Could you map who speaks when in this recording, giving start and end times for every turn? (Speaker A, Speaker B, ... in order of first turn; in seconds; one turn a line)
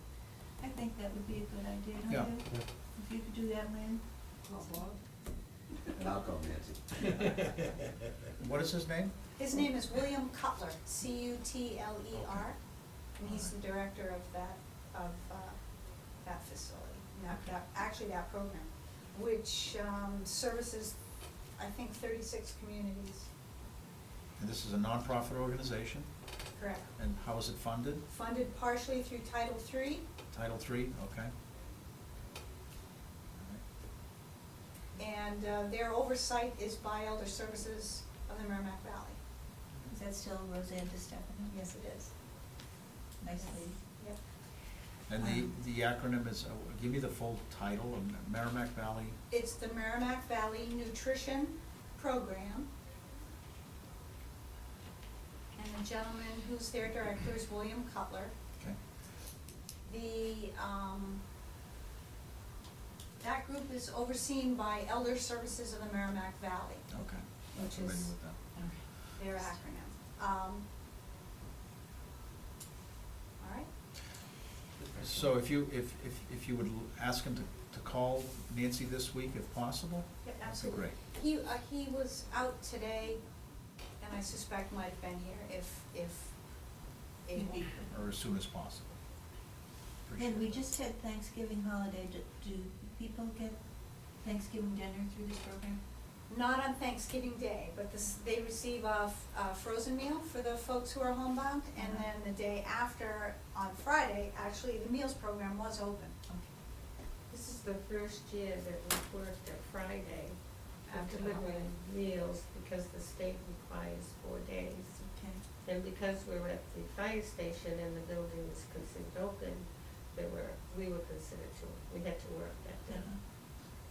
Speaker A: 0.6-4.0
Speaker B: 2.1-2.4
Speaker C: 6.0-7.9
Speaker B: 8.4-9.1
Speaker D: 9.4-12.6
Speaker D: 13.2-15.6
Speaker B: 13.2-13.5
Speaker D: 16.2-20.9
Speaker D: 21.6-23.3
Speaker B: 24.4-26.1
Speaker D: 26.6-26.9
Speaker B: 27.0-28.0
Speaker D: 28.1-30.1
Speaker B: 30.3-31.3
Speaker B: 33.3-33.6
Speaker D: 35.0-39.2
Speaker A: 39.9-41.6
Speaker D: 41.5-42.1
Speaker A: 43.2-43.8
Speaker B: 45.1-49.2
Speaker D: 49.3-52.7
Speaker D: 55.5-58.3
Speaker D: 59.8-61.2
Speaker D: 63.2-66.9
Speaker B: 66.9-68.4
Speaker D: 67.6-68.1
Speaker A: 68.5-68.8
Speaker D: 69.2-70.7
Speaker D: 73.4-73.7
Speaker B: 74.9-81.0
Speaker D: 80.2-83.2
Speaker D: 84.0-86.3
Speaker D: 87.2-87.8
Speaker A: 87.3-87.9
Speaker B: 87.9-89.0
Speaker B: 90.0-90.6
Speaker A: 90.2-93.6
Speaker A: 94.2-95.8
Speaker D: 96.3-106.2
Speaker A: 101.8-102.1
Speaker E: 107.3-110.4
Speaker D: 110.9-111.7
Speaker E: 110.9-115.0
Speaker A: 115.0-115.4
Speaker E: 115.6-123.1
Speaker A: 122.9-123.2